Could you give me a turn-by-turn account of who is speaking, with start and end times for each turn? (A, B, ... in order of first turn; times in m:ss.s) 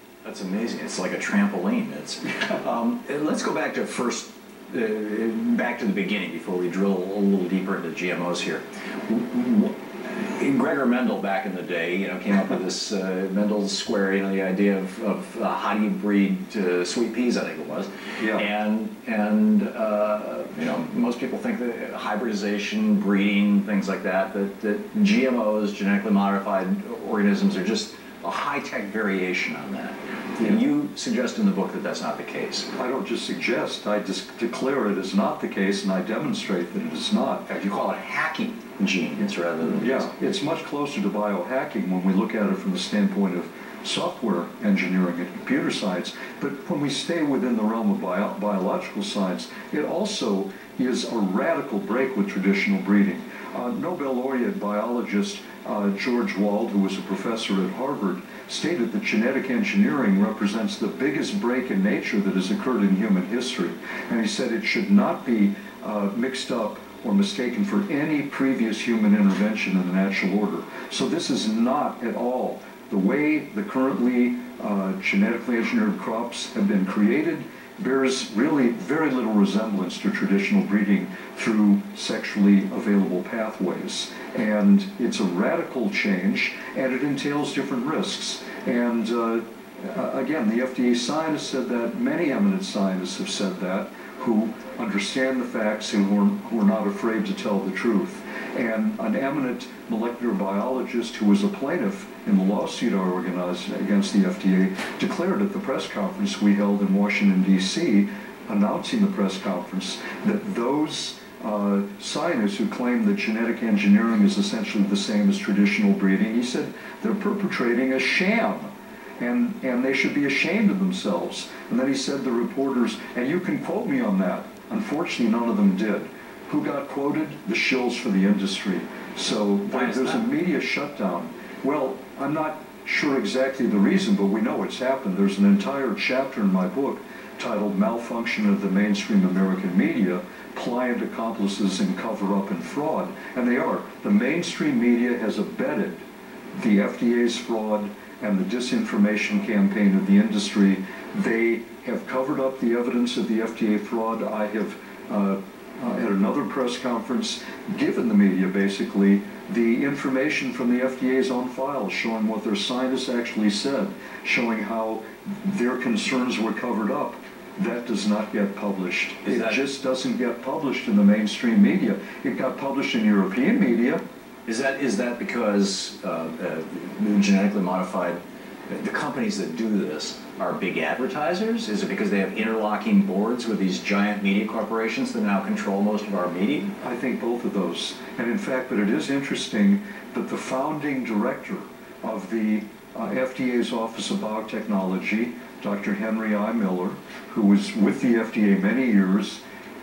0:00.2-0:32.7 A
0:32.8-0:37.4 B
0:37.5-0:40.1 A
0:39.8-2:26.0 B
2:09.7-2:10.2 A
2:26.6-2:54.0 B
2:49.2-2:49.6 A
2:54.4-3:06.7 A
3:06.8-3:19.4 B